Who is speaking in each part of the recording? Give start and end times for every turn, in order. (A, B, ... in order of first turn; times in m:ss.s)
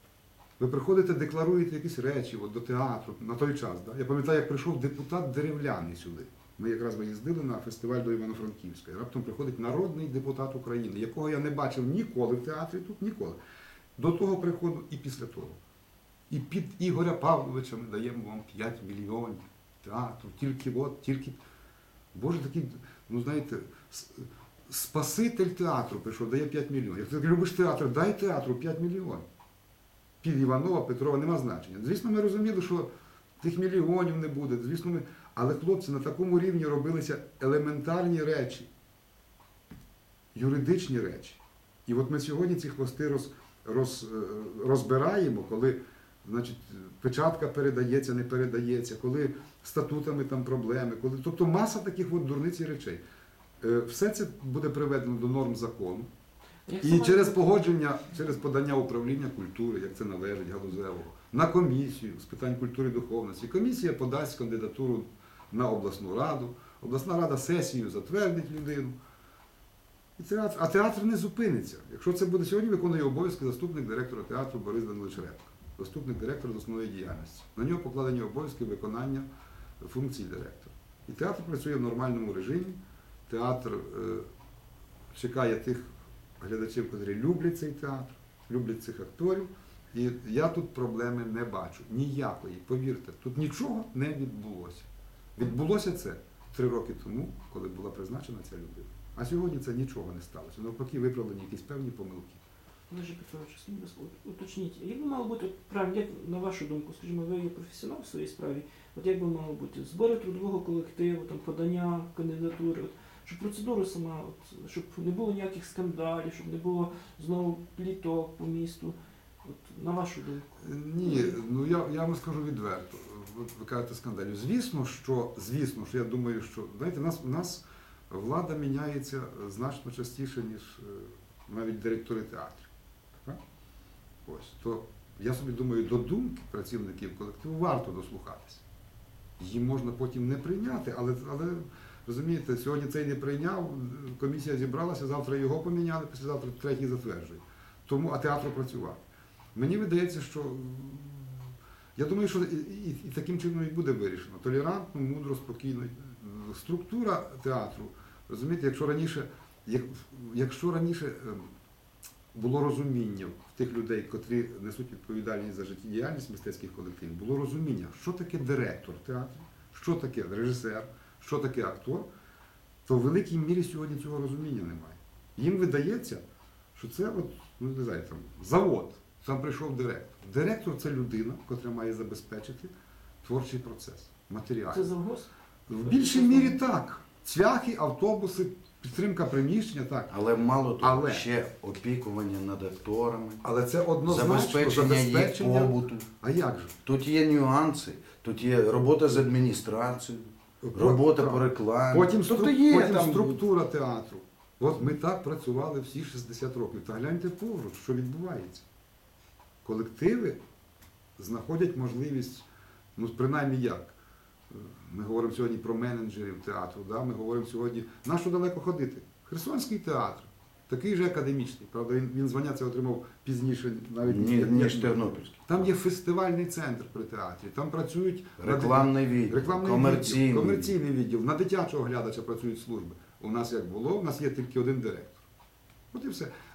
0:00.6-0:13.4 A
0:14.0-0:15.6 A
0:16.3-0:21.4 A
0:22.1-0:29.3 A
0:30.2-0:38.7 A
0:40.4-0:53.0 A
0:53.6-0:56.1 A
0:56.7-0:57.5 B
0:56.8-1:09.0 A
1:10.2-1:19.3 A
1:19.8-1:24.3 A
1:25.1-1:42.4 A
1:42.9-2:00.5 B
2:00.6-2:12.7 A
2:01.0-2:01.4 B
2:14.2-2:18.6 A
2:19.4-2:29.0 A
2:29.6-2:41.5 A
2:42.3-2:52.1 A
2:52.8-2:56.2 A
2:56.8-3:02.7 A
3:03.2-3:04.9 A
3:04.7-3:05.3 B
3:05.7-3:10.1 A
3:05.8-3:06.7 B
3:10.1-3:13.4 C
3:10.8-3:11.3 A
3:13.4-3:16.7 A
3:14.1-3:16.1 C
3:16.8-3:23.4 C
3:20.6-3:28.6 A
3:29.6-3:30.4 A
3:31.2-3:32.4 A
3:33.0-3:33.9 A
3:34.5-3:55.2 A
3:44.0-3:45.6 C
3:48.4-3:50.7 C
3:55.9-3:56.3 A